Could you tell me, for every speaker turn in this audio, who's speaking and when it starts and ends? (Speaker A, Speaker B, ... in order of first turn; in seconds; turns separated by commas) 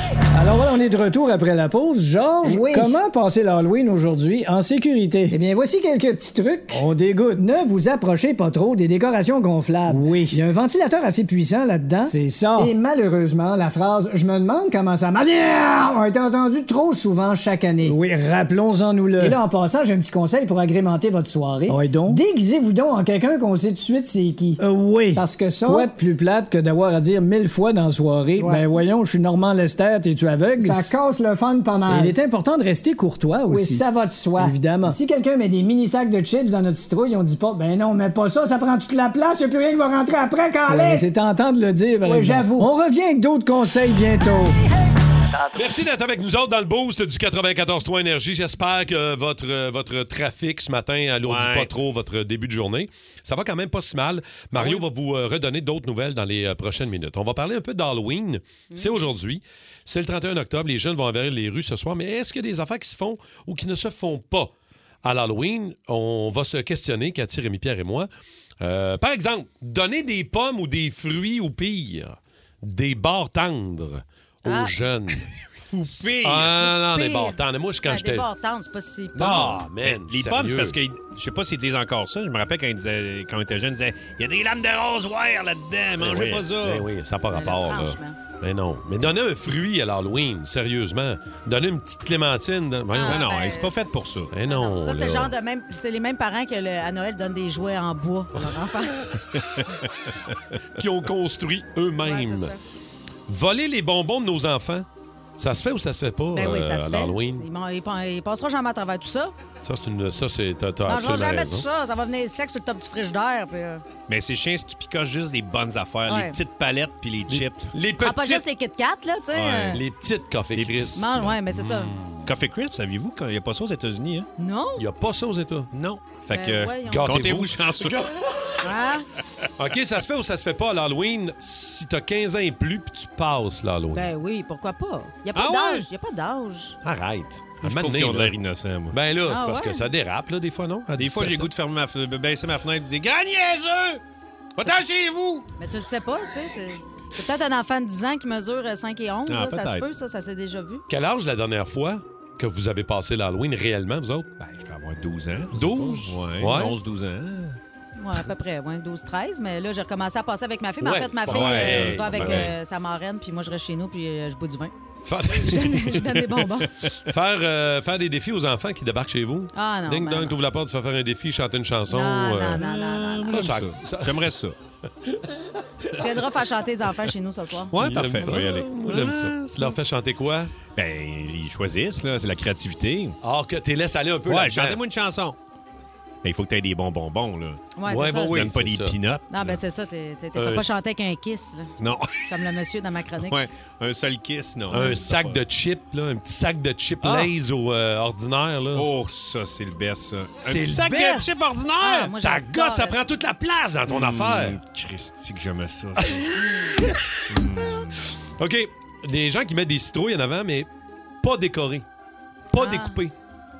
Speaker A: 0.4-5.4, Speaker B: 0.4-0.7, Speaker B: 2.4-3.0, Speaker B: 5.3-18.0, Speaker A: 6.7-7.7, Speaker A: 9.8-10.4, Speaker A: 12.0-12.7, Speaker A: 17.8-19.5, Speaker B: 19.1-25.9, Speaker A: 21.6-22.2, Speaker A: 24.6-31.0, Speaker B: 28.4-28.8, Speaker B: 30.6-32.2, Speaker A: 31.9-35.0, Speaker B: 33.4-41.1, Speaker A: 40.7-43.0, Speaker B: 42.0-44.5, Speaker C: 45.5-68.1, Speaker D: 51.2-51.7, Speaker E: 58.7-59.0, Speaker C: 68.6-75.2, Speaker E: 74.5-74.7, Speaker D: 75.7-76.6, Speaker C: 76.1-78.3, Speaker E: 76.6-79.6, Speaker C: 79.2-80.8, Speaker D: 79.2-86.9, Speaker C: 86.0-93.2, Speaker E: 87.3-88.2, Speaker E: 92.9-99.1, Speaker D: 93.0-94.3, Speaker C: 94.3-95.3, Speaker D: 99.3-100.4, Speaker C: 100.7-102.5, Speaker E: 102.0-102.6, Speaker C: 103.3-104.9, Speaker C: 105.4-107.5, Speaker E: 106.3-109.3, Speaker C: 109.6-111.7, Speaker E: 110.8-113.8, Speaker D: 114.1-117.7, Speaker E: 116.1-116.4, Speaker C: 117.3-118.4, Speaker E: 118.0-119.8, Speaker D: 119.3-119.8, Speaker C: 119.7-122.3, Speaker D: 120.5-121.0, Speaker E: 120.9-121.9, Speaker D: 122.2-124.3, Speaker E: 124.4-124.8, Speaker C: 124.8-125.7, Speaker D: 125.7-128.1, Speaker E: 126.3-127.2, Speaker C: 126.8-128.1, Speaker E: 128.6-129.1, Speaker C: 129.6-134.1, Speaker E: 133.9-136.8, Speaker D: 135.3-135.9, Speaker C: 136.8-138.3, Speaker D: 137.6-139.0, Speaker C: 138.9-141.5, Speaker E: 139.3-139.9, Speaker D: 141.0-144.0, Speaker D: 144.6-145.4, Speaker E: 145.6-150.8, Speaker D: 149.3-149.8, Speaker C: 150.9-154.3, Speaker D: 154.4-157.6, Speaker C: 155.5-156.8, Speaker E: 158.0-164.7, Speaker C: 160.8-162.5, Speaker D: 161.3-162.5, Speaker C: 165.0-166.0, Speaker E: 165.3-166.7, Speaker C: 167.0-172.6, Speaker E: 169.5-170.4, Speaker E: 171.9-173.4, Speaker D: 172.5-174.6, Speaker C: 173.3-174.3, Speaker E: 175.9-177.7, Speaker D: 177.7-179.7, Speaker C: 177.7-180.5, Speaker D: 180.7-183.2, Speaker C: 183.2-184.8, Speaker D: 184.3-185.4, Speaker D: 186.2-187.6, Speaker E: 187.8-188.6, Speaker C: 187.8-189.6, Speaker D: 188.3-189.2, Speaker E: 189.3-191.7, Speaker C: 190.3-190.8, Speaker D: 191.8-192.3, Speaker E: 192.2-193.4, Speaker D: 193.2-195.4, Speaker C: 194.7-198.9, Speaker D: 197.0-197.3, Speaker D: 198.7-202.1, Speaker C: 200.4-201.5, Speaker E: 201.8-203.0, Speaker C: 202.1-204.6, Speaker D: 203.9-206.3, Speaker E: 206.3-206.8, Speaker D: 207.3-208.1, Speaker C: 208.2-210.7, Speaker C: 211.2-211.9, Speaker C: 212.5-213.1, Speaker E: 212.5-213.0